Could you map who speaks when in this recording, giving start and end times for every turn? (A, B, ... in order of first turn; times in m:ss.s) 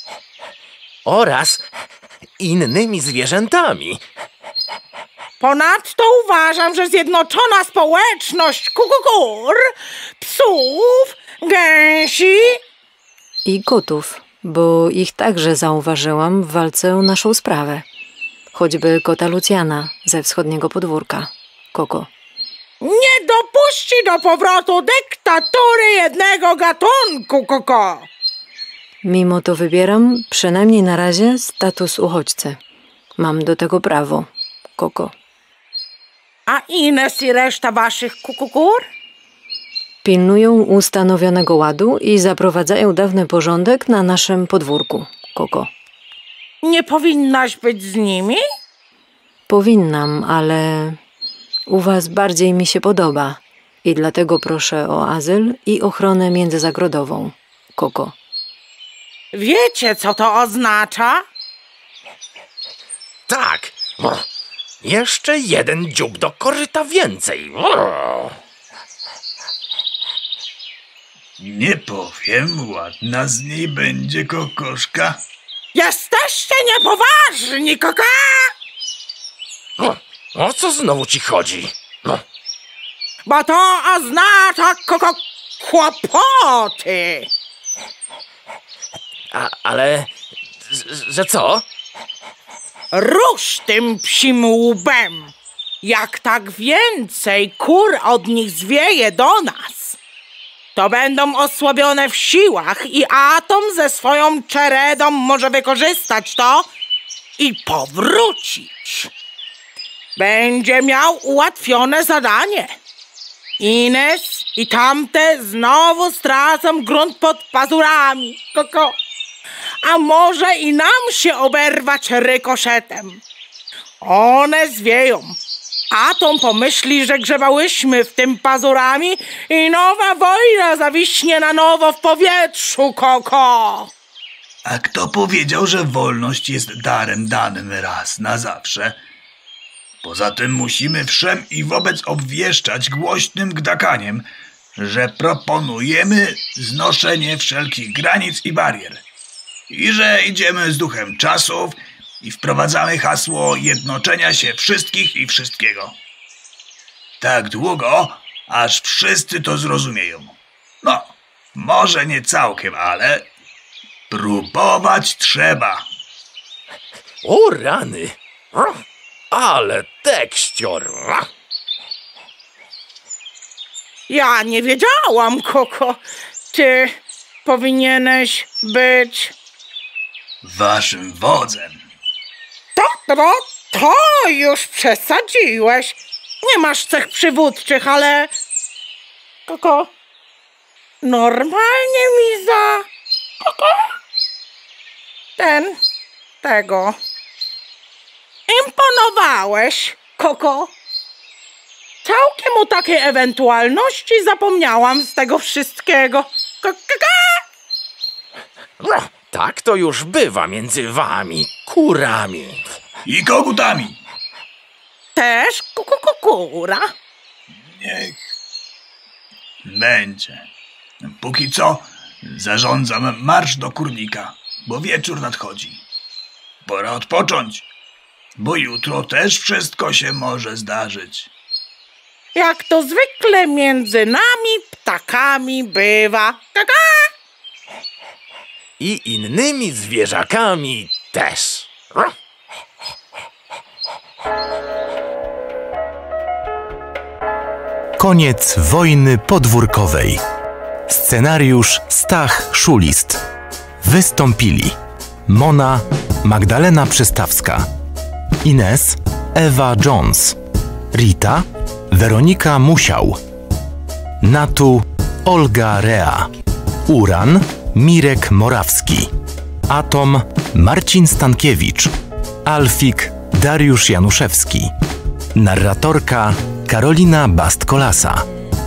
0:01.0-0:01.6 A
0:02.4-0:04.0 A
0:05.4-0:09.6 B
0:10.2-0:12.6 B
0:13.5-0:17.8 C
0:18.5-0:22.1 C
0:22.8-0:28.1 B
0:29.0-0:32.6 C
0:33.2-0:35.1 C
0:36.5-0:38.9 B
0:40.0-0:45.7 C
0:46.6-0:48.4 B
0:49.5-0:51.0 C
0:51.7-0:58.1 C
0:59.3-1:01.2 B
1:03.3-1:04.2 A
1:04.8-1:08.4 A
1:11.4-1:15.2 D
1:15.7-1:18.5 B
1:19.8-1:22.2 A
1:23.3-1:27.3 B
1:29.3-1:30.1 A
1:30.6-1:31.6 A
1:32.9-1:40.0 B
1:40.8-1:46.7 B
1:47.4-1:49.1 B
1:50.2-1:52.8 B
1:53.6-1:59.0 B
1:59.8-2:03.2 B
2:04.0-2:05.4 B
2:05.9-2:13.9 B
2:14.6-2:19.0 D
2:20.0-2:29.0 D
2:29.7-2:36.0 D
2:37.2-2:43.3 D
2:44.1-2:45.9 D
2:47.2-2:51.3 A
2:54.1-2:56.0 B
2:56.5-2:59.3 B
3:00.4-3:01.8 D
3:02.8-3:08.3 B
3:09.5-3:09.9 B
3:11.0-3:12.9 B
3:13.4-3:13.9 B
3:15.4-3:15.8 B
3:16.4-3:17.0 B
3:18.5-3:20.7 B
3:22.0-3:27.4 B
3:28.8-3:32.7 A
3:33.0-3:34.0 D
3:35.2-3:36.9 B
3:37.7-3:38.2 D
3:39.6-3:40.5 D
3:41.0-3:45.8 D
3:46.6-3:47.7 D
3:48.4-3:51.3 D
3:52.4-3:57.1 B
3:58.8-4:02.1 A
4:08.0-4:10.2 E
4:10.9-4:13.2 E
4:13.8-4:14.8 E
4:15.3-4:17.7 E
4:18.4-4:20.4 E
4:20.9-4:23.2 E
4:24.2-4:26.3 E
4:26.9-4:29.1 E
4:29.7-4:31.9 E
4:32.4-4:34.7 E
4:35.4-4:38.2 E